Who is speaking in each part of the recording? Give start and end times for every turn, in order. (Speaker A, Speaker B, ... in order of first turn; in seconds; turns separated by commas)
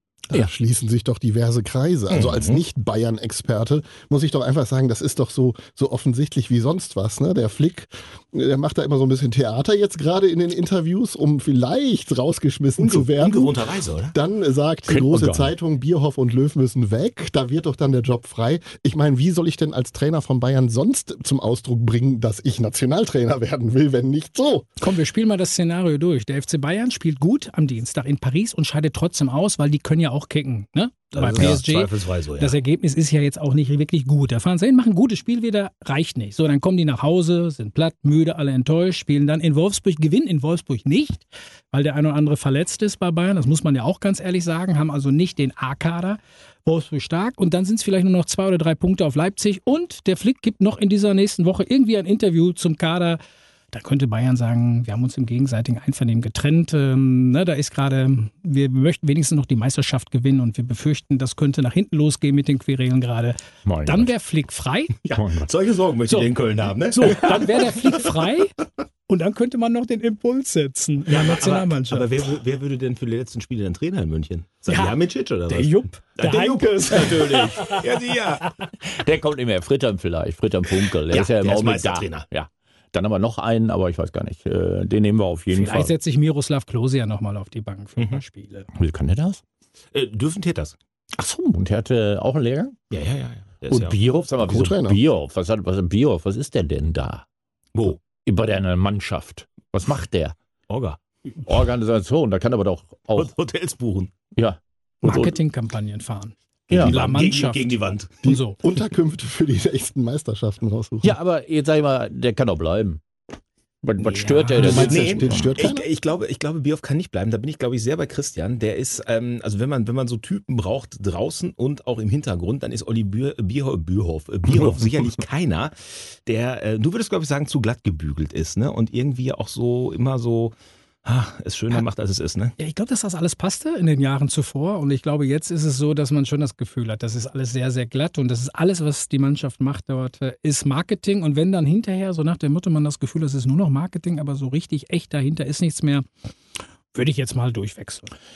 Speaker A: 0.3-13.6, Speaker B: 2.1-2.6, Speaker B: 12.8-14.1, Speaker A: 14.1-24.7, Speaker C: 14.9-15.5, Speaker D: 24.8-53.2, Speaker B: 31.1-32.5, Speaker D: 53.7-65.0, Speaker C: 63.6-64.1, Speaker B: 65.0-67.7, Speaker C: 65.2-65.5, Speaker D: 66.9-68.5, Speaker D: 69.1-72.1, Speaker B: 71.1-78.5, Speaker D: 74.7-75.0, Speaker D: 75.5-77.8, Speaker C: 77.1-77.7, Speaker C: 78.7-85.9, Speaker B: 81.1-82.2, Speaker D: 85.5-88.7, Speaker C: 88.7-89.4, Speaker B: 89.9-90.8, Speaker C: 91.2-92.8, Speaker B: 92.9-94.0, Speaker C: 93.7-97.2, Speaker A: 94.4-95.0, Speaker C: 98.0-100.3, Speaker B: 100.7-101.0, Speaker C: 101.3-103.3, Speaker B: 103.2-104.1, Speaker C: 104.3-105.4, Speaker D: 105.0-107.7, Speaker C: 106.7-107.0, Speaker B: 106.7-108.2, Speaker D: 108.2-108.6, Speaker A: 108.2-111.1, Speaker C: 111.0-113.0, Speaker C: 113.8-115.6, Speaker D: 114.0-115.1, Speaker B: 114.6-132.5, Speaker A: 114.6-115.8, Speaker D: 132.6-146.1, Speaker D: 146.9-148.1